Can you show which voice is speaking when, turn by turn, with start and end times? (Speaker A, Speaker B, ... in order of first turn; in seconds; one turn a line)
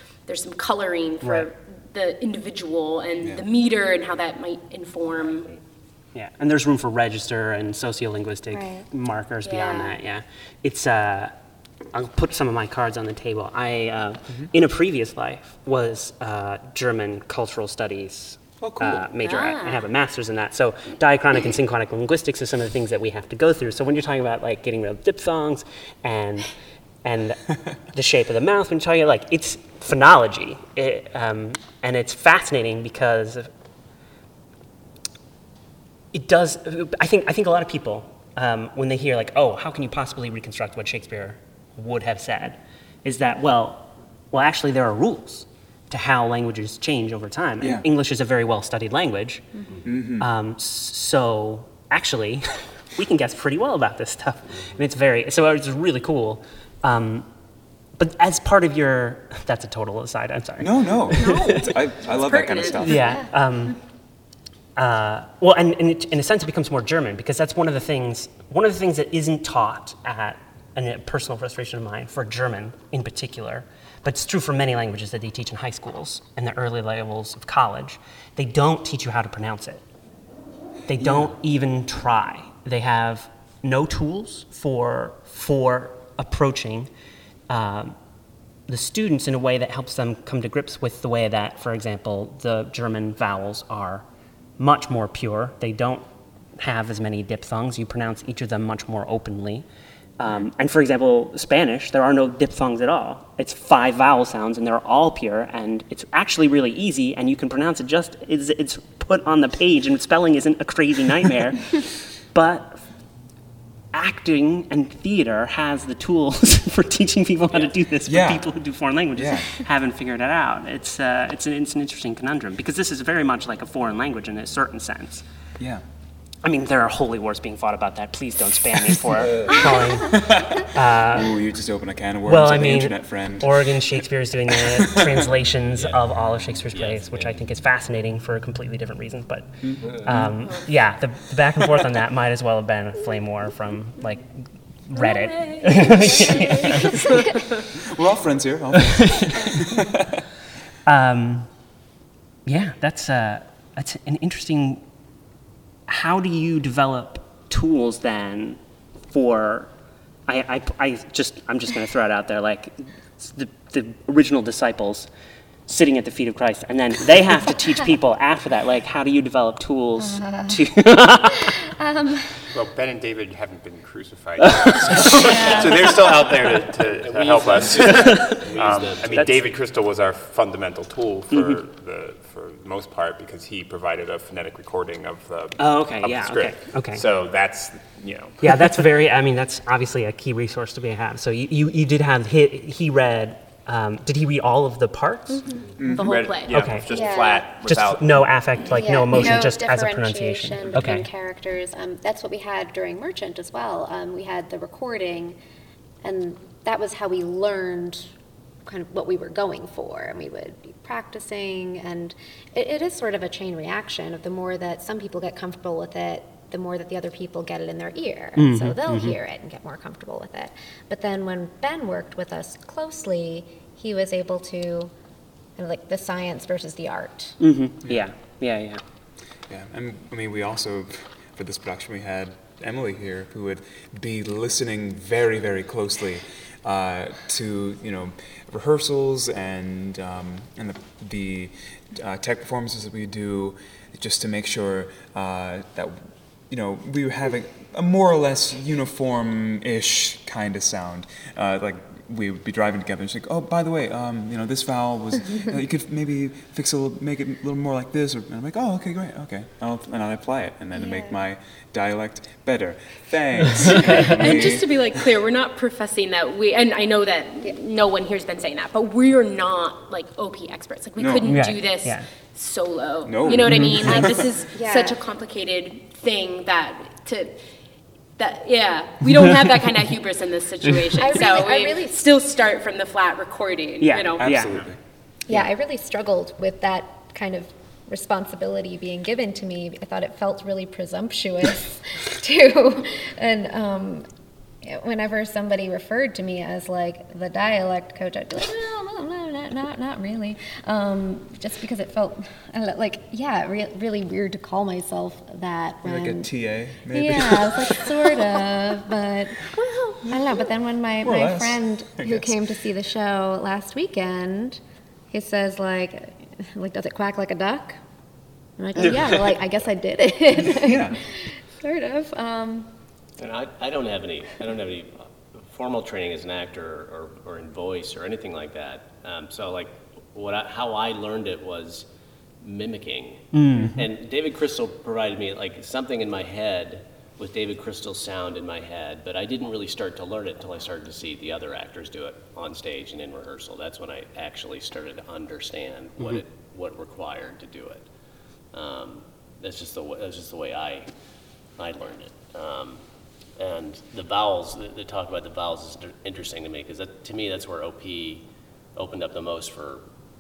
Speaker A: 0.3-5.5
Speaker B: 1.2-1.5
Speaker B: 6.1-11.3
Speaker C: 8.5-8.9
Speaker A: 9.4-10.0
Speaker B: 11.9-26.5
Speaker D: 18.6-19.1
Speaker A: 19.2-19.9
Speaker B: 27.0-33.5
Speaker B: 36.1-49.5
Speaker D: 47.6-47.9
Speaker D: 49.9-50.3
Speaker B: 50.2-57.3
Speaker B: 58.0-61.5
Speaker D: 60.6-63.2
Speaker A: 61.1-63.2
Speaker B: 62.8-63.8
Speaker B: 64.8-79.8
Speaker B: 80.9-86.9
Speaker B: 87.5-88.0
Speaker B: 88.7-94.0
Speaker B: 94.6-99.7
Speaker B: 100.2-112.8
Speaker B: 113.9-125.2
Speaker D: 118.1-118.5
Speaker D: 119.1-119.5
Speaker B: 126.4-131.4
Speaker E: 129.3-129.6
Speaker D: 130.1-133.8
Speaker B: 132.3-147.1
Speaker D: 134.6-135.2
Speaker E: 135.7-136.1
Speaker E: 136.7-137.5
Speaker D: 139.6-140.3
Speaker A: 144.9-147.6
Speaker D: 147.8-150.2
Speaker B: 148.8-149.5
Speaker B: 150.9-151.5
Speaker B: 152.5-154.8
Speaker B: 155.9-159.7
Speaker B: 160.3-165.1
Speaker B: 165.7-171.6
Speaker C: 170.0-172.4
Speaker F: 172.5-188.8
Speaker B: 174.4-175.2
Speaker A: 175.1-175.9
Speaker C: 175.3-175.9
Speaker E: 176.1-179.4
Speaker B: 177.9-178.4
Speaker B: 181.3-181.6
Speaker B: 185.6-187.0
Speaker B: 188.4-195.6
Speaker A: 195.3-196.8
Speaker D: 195.8-196.1
Speaker F: 195.8-198.3
Speaker B: 196.5-201.1
Speaker C: 196.9-197.5
Speaker C: 198.7-205.4
Speaker C: 206.0-208.1
Speaker C: 208.7-224.9
Speaker B: 218.4-219.2
Speaker C: 225.6-227.4
Speaker B: 227.4-228.8
Speaker D: 229.5-265.0
Speaker C: 260.7-261.2
Speaker A: 263.8-277.4
Speaker D: 271.0-271.4
Speaker B: 271.3-272.1
Speaker D: 273.1-274.1
Speaker B: 273.5-274.0
Speaker C: 273.9-275.0
Speaker A: 278.2-284.3
Speaker C: 281.0-282.1
Speaker B: 283.8-284.6
Speaker D: 284.2-284.8
Speaker C: 285.3-294.1
Speaker C: 294.6-306.3
Speaker D: 305.8-307.9
Speaker C: 306.9-309.5
Speaker A: 309.5-310.4
Speaker C: 310.1-317.8
Speaker D: 311.0-312.4
Speaker C: 318.6-322.7
Speaker D: 320.5-321.0
Speaker E: 323.2-331.9
Speaker E: 332.4-347.9
Speaker B: 333.3-333.8
Speaker E: 348.5-350.9
Speaker E: 351.6-352.9
Speaker E: 353.4-359.9